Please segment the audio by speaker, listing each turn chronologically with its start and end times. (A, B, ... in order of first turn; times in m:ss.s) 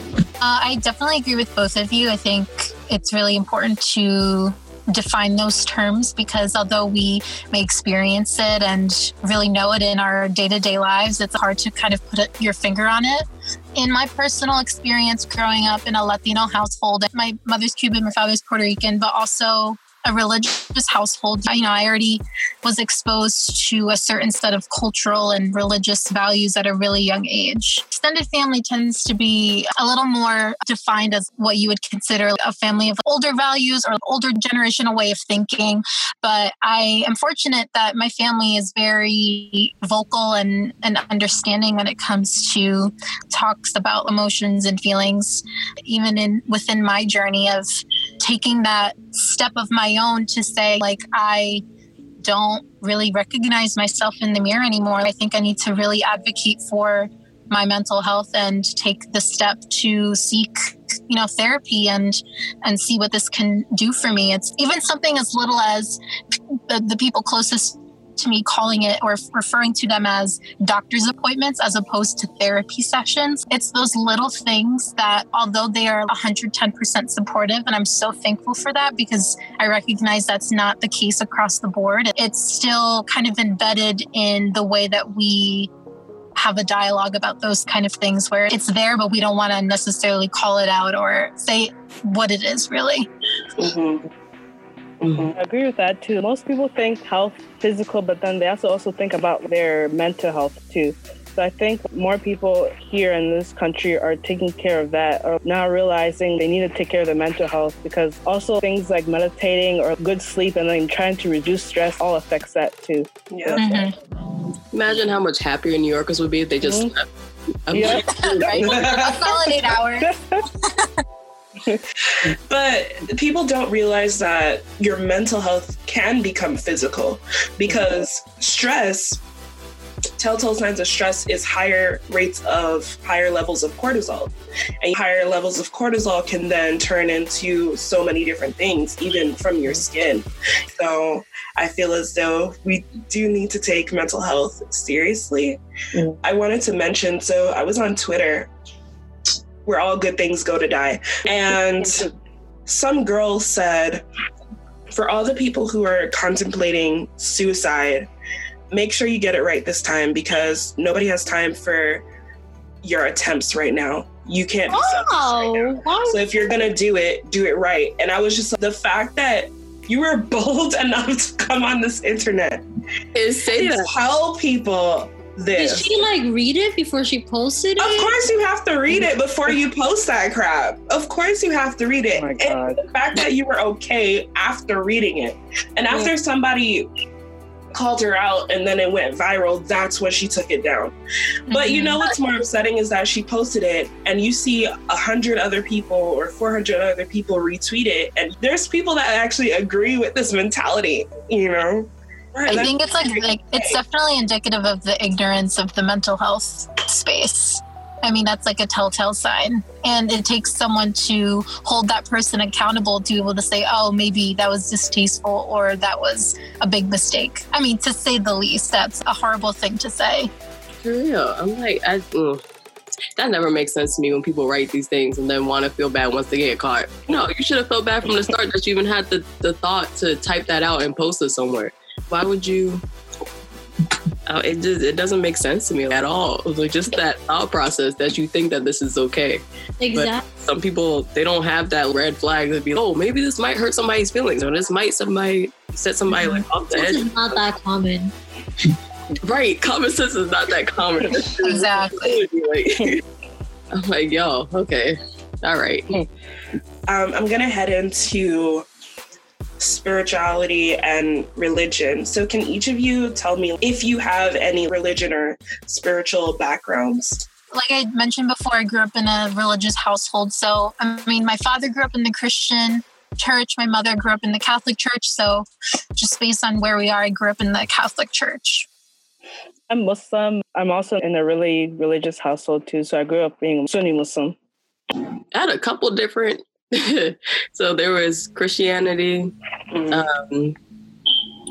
0:00.4-0:47.7 A
0:48.2-0:51.6 A
0:52.2-1:06.0 A
1:06.7-1:25.7 A
1:26.4-1:33.1 A
1:33.6-1:34.0 B
1:35.0-1:35.4 B
1:35.4-1:53.7 C
1:53.3-1:53.6 B
1:53.6-1:53.9 A
1:54.7-1:57.1 D
1:56.6-1:56.9 C
1:57.6-1:58.8 D
1:57.7-1:58.1 C
1:58.1-2:01.0 A
1:58.6-1:59.7 B
2:00.0-2:00.4 C
2:02.2-2:09.2 B
2:07.7-2:08.0 C
2:10.2-2:25.6 B
2:26.2-2:28.5 B
2:29.6-2:32.1 B
2:32.6-2:34.0 B
2:34.9-2:38.1 B
2:38.7-2:42.0 B
2:42.8-2:52.6 B
2:44.7-2:46.2 E
2:53.1-2:53.9 D
2:53.6-2:55.9 B
2:55.6-2:58.1 E
2:57.8-3:06.9 B
3:02.1-3:02.8 C
3:07.7-3:10.9 B
3:11.5-3:12.0 A
3:11.5-3:23.8 B
3:22.5-3:40.3 A
3:40.8-3:42.4 D
3:43.2-3:52.8 D
3:54.3-4:07.1 D
3:59.8-4:00.2 E
4:06.1-4:06.4 A
4:06.7-4:08.1 E
4:09.2-4:13.0 D
4:11.4-4:12.2 A
4:13.7-4:15.9 D
4:16.9-4:18.7 B
4:19.6-4:27.2 B
4:27.5-4:38.7 A
4:39.7-4:44.4 C
4:45.3-4:49.3 D
4:49.7-4:50.0 B
4:49.9-4:50.6 D